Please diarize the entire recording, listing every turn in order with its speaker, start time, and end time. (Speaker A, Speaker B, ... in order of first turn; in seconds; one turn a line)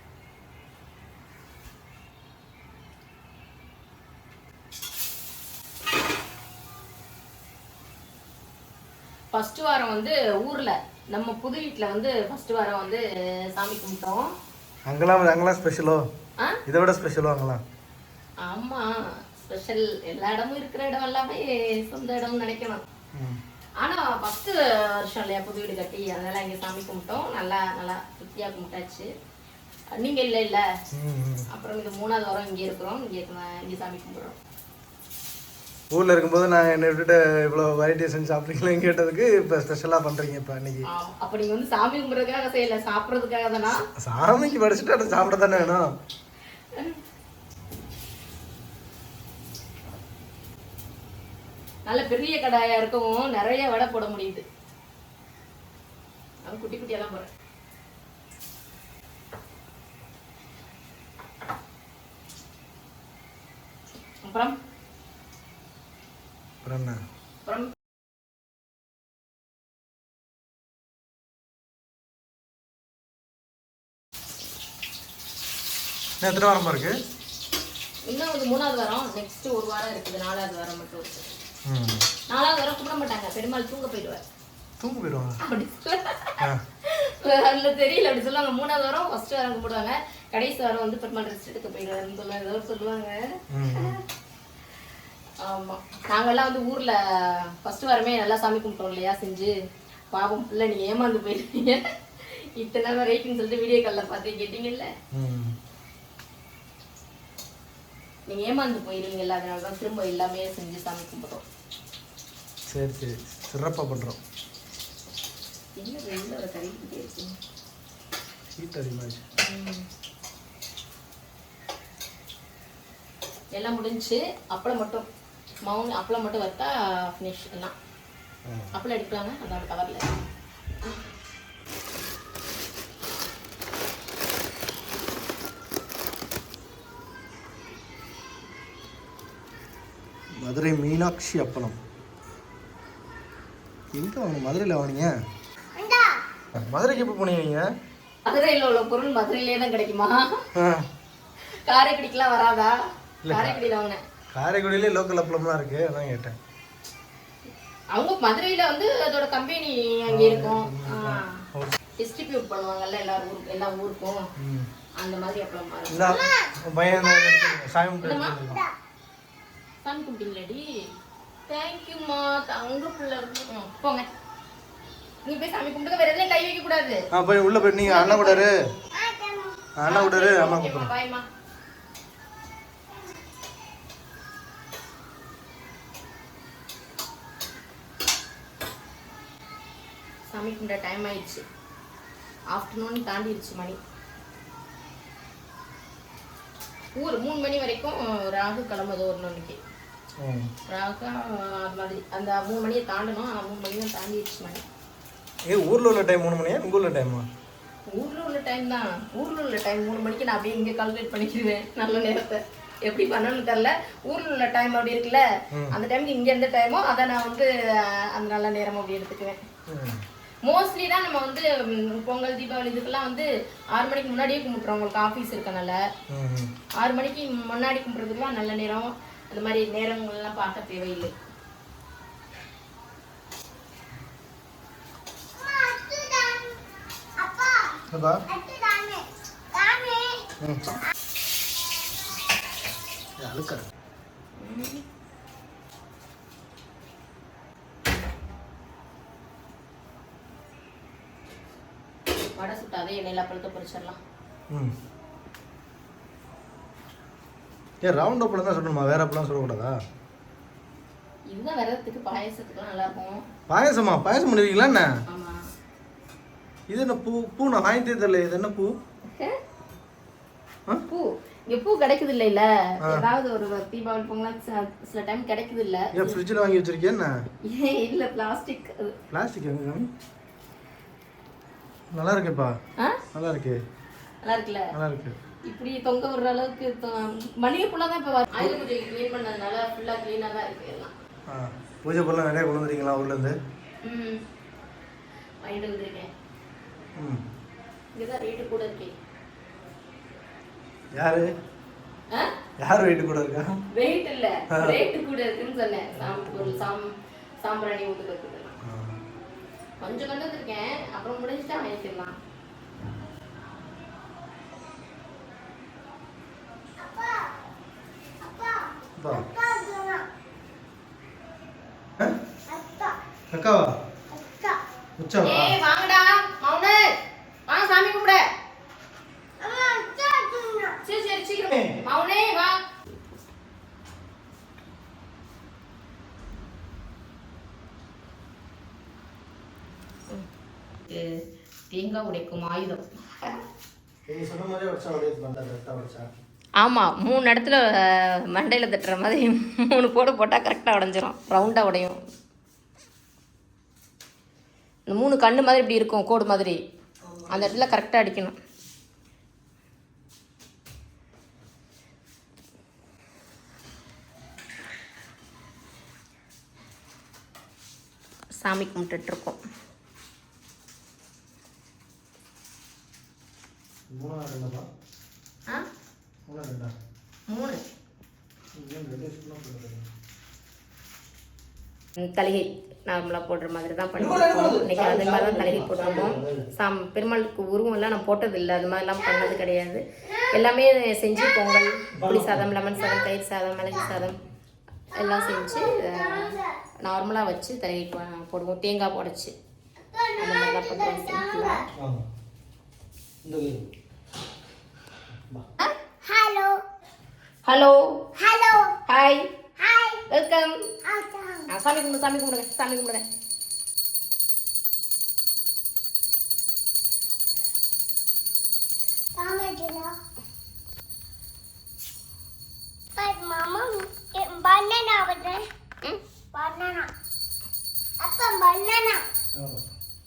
Speaker A: 9.3-14.3
Speaker B: 14.8-16.1
Speaker B: 16.6-17.6
Speaker A: 18.4-22.8
Speaker B: 23.1-23.4
Speaker A: 23.8-29.1
Speaker A: 29.9-30.6
Speaker B: 30.9-31.4
Speaker A: 31.5-34.4
Speaker B: 35.9-40.9
Speaker A: 40.9-43.8
Speaker B: 44.0-45.9
Speaker A: 46.7-47.0
Speaker A: 51.9-54.4
Speaker A: 56.4-57.3
Speaker A: 64.2-64.5
Speaker B: 66.6-67.0
Speaker A: 67.4-67.7
Speaker B: 76.2-77.0
Speaker A: 78.0-81.3
Speaker B: 81.7-82.1
Speaker A: 82.3-84.2
Speaker B: 84.8-85.4
Speaker A: 85.4-94.0
Speaker B: 93.5-94.0
Speaker A: 95.4-99.5
Speaker A: 100.1-104.9
Speaker B: 105.1-105.6
Speaker A: 108.3-111.5
Speaker B: 112.7-114.2
Speaker A: 115.8-117.3
Speaker B: 118.5-119.2
Speaker A: 119.4-119.9
Speaker A: 123.5-125.0
Speaker A: 125.6-127.7
Speaker B: 128.4-128.7
Speaker A: 128.7-130.0
Speaker B: 140.4-141.8
Speaker B: 143.9-145.2
Speaker C: 145.7-146.2
Speaker B: 146.6-147.7
Speaker A: 148.2-150.4
Speaker B: 150.5-150.9
Speaker A: 151.5-152.7
Speaker B: 153.2-153.6
Speaker A: 153.3-154.0
Speaker B: 154.3-156.4
Speaker A: 157.9-161.4
Speaker B: 160.1-161.8
Speaker A: 162.0-164.3
Speaker B: 164.4-164.7
Speaker A: 165.0-166.3
Speaker B: 165.9-168.6
Speaker A: 168.0-168.4
Speaker A: 169.8-170.6
Speaker A: 171.5-174.1
Speaker A: 175.2-177.1
Speaker B: 177.1-178.6
Speaker A: 177.8-178.5
Speaker C: 178.9-179.7
Speaker B: 179.8-180.9
Speaker A: 179.9-181.2
Speaker A: 190.3-191.4
Speaker A: 192.5-193.8
Speaker A: 196.9-199.6
Speaker B: 200.2-200.5
Speaker A: 200.7-204.6
Speaker B: 205.5-207.3
Speaker A: 207.9-219.4
Speaker B: 219.7-220.0
Speaker A: 220.4-225.8
Speaker B: 226.1-226.5
Speaker A: 226.8-231.1
Speaker C: 235.3-236.6
Speaker C: 237.2-240.3
Speaker B: 237.9-238.2
Speaker B: 240.4-240.7
Speaker B: 243.2-243.7
Speaker A: 244.4-244.8
Speaker A: 252.3-254.0
Speaker B: 257.8-259.8
Speaker A: 261.3-263.2
Speaker B: 263.5-264.9
Speaker A: 265.1-265.5
Speaker B: 266.7-268.8
Speaker A: 269.1-269.4
Speaker A: 270.9-276.2
Speaker B: 272.8-273.1
Speaker B: 275.9-277.1
Speaker A: 277.4-278.9
Speaker B: 279.1-279.9
Speaker B: 281.9-282.6
Speaker B: 283.1-283.6
Speaker A: 284.2-284.7
Speaker B: 284.7-285.2
Speaker A: 285.4-290.9
Speaker B: 291.3-293.4
Speaker A: 293.8-294.2
Speaker A: 295.4-296.1
Speaker B: 296.9-297.2
Speaker A: 297.9-298.9
Speaker B: 300.9-301.3
Speaker B: 302.6-303.6
Speaker A: 303.7-306.9
Speaker B: 304.5-304.8
Speaker B: 305.9-306.6
Speaker A: 307.4-308.5
Speaker B: 308.6-309.0
Speaker A: 309.8-312.1
Speaker C: 316.8-317.3
Speaker C: 318.2-320.1
Speaker B: 319.0-319.3
Speaker C: 322.5-323.0
Speaker B: 323.3-323.7
Speaker C: 324.1-324.6
Speaker B: 325.0-325.6
Speaker A: 325.2-326.9
Speaker A: 327.5-328.2
Speaker C: 329.4-330.8
Speaker A: 330.8-332.6
Speaker B: 331.5-331.8
Speaker A: 340.9-343.4
Speaker B: 344.1-346.1
Speaker A: 346.6-352.0
Speaker A: 354.9-356.6
Speaker A: 357.3-358.3
Speaker A: 368.4-369.4
Speaker B: 373.9-374.6
Speaker B: 376.3-376.7
Speaker A: 377.3-377.6
Speaker B: 378.5-379.9
Speaker A: 382.0-394.2
Speaker B: 384.0-386.5
Speaker B: 391.9-392.5
Speaker C: 394.9-396.5
Speaker A: 394.9-399.3
Speaker C: 399.9-401.6
Speaker A: 400.2-401.6
Speaker B: 401.8-402.0
Speaker B: 403.2-403.7
Speaker B: 405.1-405.4
Speaker C: 406.0-406.6
Speaker A: 407.4-408.1
Speaker C: 408.1-408.8
Speaker A: 408.9-409.3
Speaker C: 409.6-410.0
Speaker A: 410.1-410.7
Speaker C: 410.8-411.5
Speaker A: 411.5-413.1
Speaker C: 419.1-419.9
Speaker C: 422.9-425.4
Speaker C: 426.3-426.9
Speaker C: 428.0-429.0
Speaker B: 429.3-429.6